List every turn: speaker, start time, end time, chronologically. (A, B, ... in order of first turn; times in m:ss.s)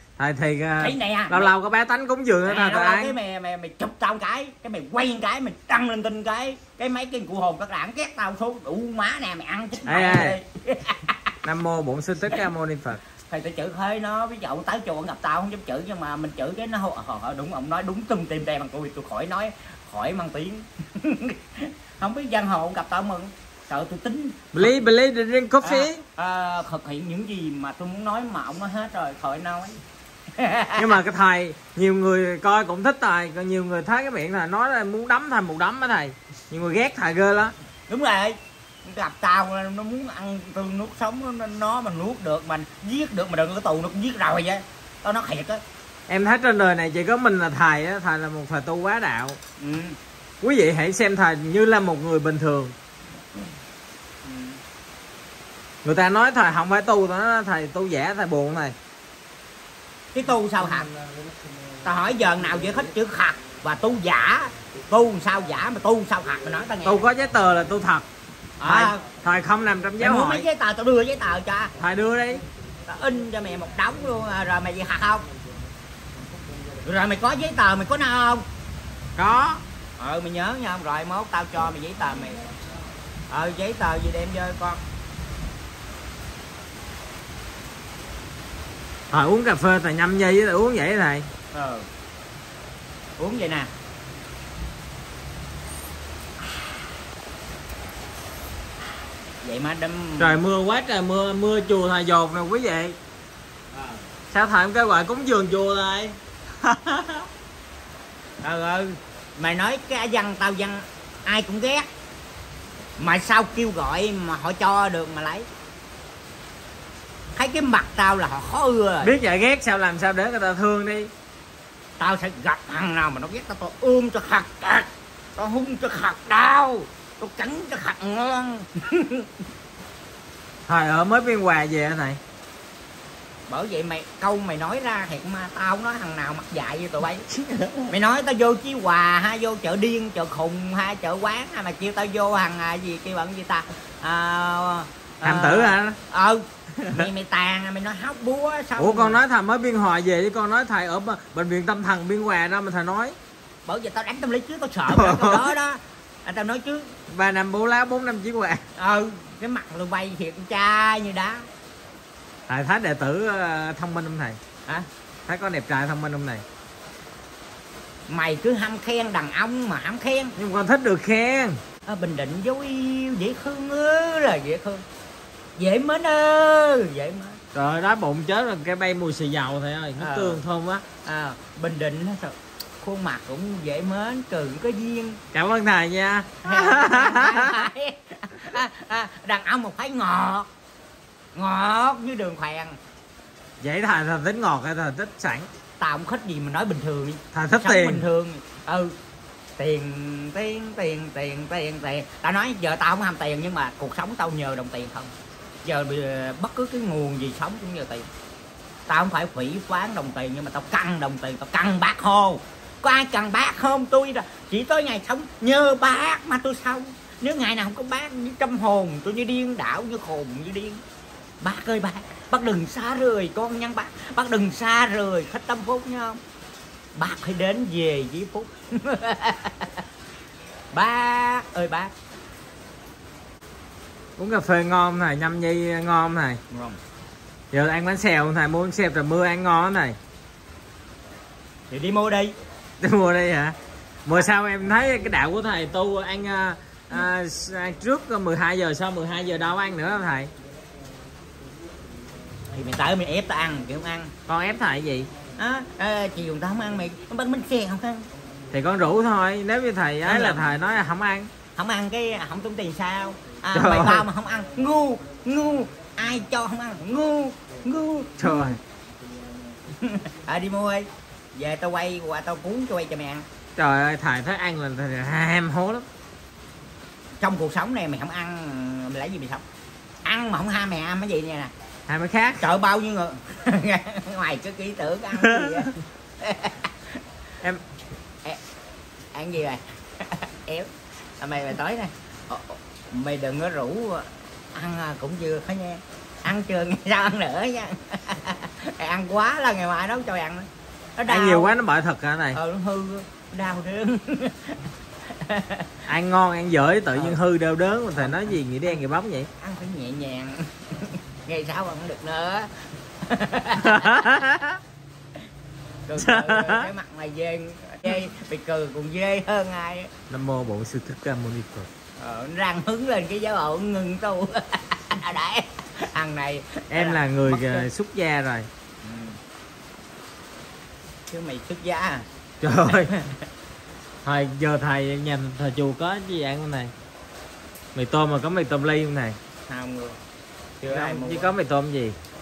0:00.2-0:03.2 A
0:00.8-0:01.5 B
0:02.5-0:11.3 B
0:09.9-0:10.4 A
0:11.4-0:13.0 A
0:13.3-0:24.7 B
0:24.5-0:26.0 A
0:25.6-0:29.8 B
0:30.4-0:30.9 B
0:30.8-0:37.5 A
0:37.9-0:45.6 B
0:46.1-0:49.4 A
0:49.6-0:50.0 B
0:50.4-0:52.7 A
0:54.2-0:54.6 B
0:55.8-0:58.8 A
1:00.1-1:00.9 B
1:01.8-1:07.1 B
1:06.8-1:08.1 A
1:08.6-1:09.0 B
1:08.6-1:10.5 A
1:10.0-1:11.7 B
1:11.8-1:12.4 A
1:12.9-1:15.3 B
1:16.8-1:18.4 B
1:19.2-1:19.6 A
1:20.0-1:22.5 B
1:23.3-1:24.8 B
1:29.1-1:31.3 A
1:31.5-1:31.9 B
1:33.2-1:33.7 B
1:39.4-1:40.4 B
1:40.2-1:43.0 A
1:43.7-1:44.0 B
1:44.3-1:47.3 A
1:48.4-1:51.9 B
1:53.0-1:55.5 B
1:57.4-1:59.1 B
1:59.0-2:01.1 A
2:02.0-2:09.3 B
2:10.7-2:12.2 A
2:13.5-2:17.2 B
2:17.3-2:17.9 A
2:17.9-2:29.2 B
2:25.2-2:26.0 A
2:26.8-2:27.1 A
2:28.8-2:33.2 A
2:33.7-2:36.9 B
2:34.9-2:35.5 A
2:37.1-2:38.6 A
2:38.8-2:41.5 B
2:42.5-2:44.4 A
2:45.3-2:46.4 A
2:48.1-2:50.4 B
2:50.4-2:51.6 A
2:51.9-2:54.8 B
2:55.6-2:57.4 B
2:57.5-3:00.8 A
3:00.0-3:00.4 B
3:01.0-3:05.2 B
3:05.3-3:07.7 A
3:06.4-3:10.5 B
3:11.4-3:12.8 B
3:13.6-3:15.5 A
3:15.8-3:19.0 B
3:17.3-3:18.0 A
3:19.6-3:25.1 B
3:25.6-3:28.1 B
3:28.9-3:40.8 B
3:41.4-3:46.2 B
3:47.0-3:49.8 B
3:50.7-3:51.9 B
3:54.2-3:56.4 A
3:56.5-3:56.8 B
3:57.5-4:00.0 A
4:01.7-4:02.4 B
4:02.8-4:10.3 A
4:12.5-4:14.1 B
4:14.3-4:15.1 A
4:15.4-4:18.1 B
4:18.5-4:21.3 A
4:20.0-4:20.5 B
4:21.6-4:28.6 B
4:23.5-4:24.1 A
4:28.2-4:28.6 A
4:29.7-4:33.2 B
4:33.6-4:35.9 A
4:37.2-4:39.4 B
4:40.0-4:41.5 B
4:41.9-4:42.4 A
4:42.4-4:46.7 B
4:45.2-4:45.7 A
4:49.1-5:01.5 B
5:01.1-5:02.4 A
5:02.3-5:05.7 B
5:05.9-5:09.3 A
5:07.0-5:07.2 B
5:08.0-5:08.8 B
5:09.4-5:14.2 B
5:13.6-5:14.6 A
5:15.9-5:19.9 B
5:16.0-5:16.7 A
5:20.1-5:21.7 A
5:22.0-5:27.7 B
5:26.7-5:28.5 A
5:28.8-5:29.2 B
5:31.1-5:32.1 B
5:32.4-5:32.9 A
5:32.7-5:33.2 B
5:34.0-5:36.7 A
5:37.8-5:39.2 A
5:39.5-5:40.0 B
5:40.6-5:41.4 B
5:40.7-5:42.0 A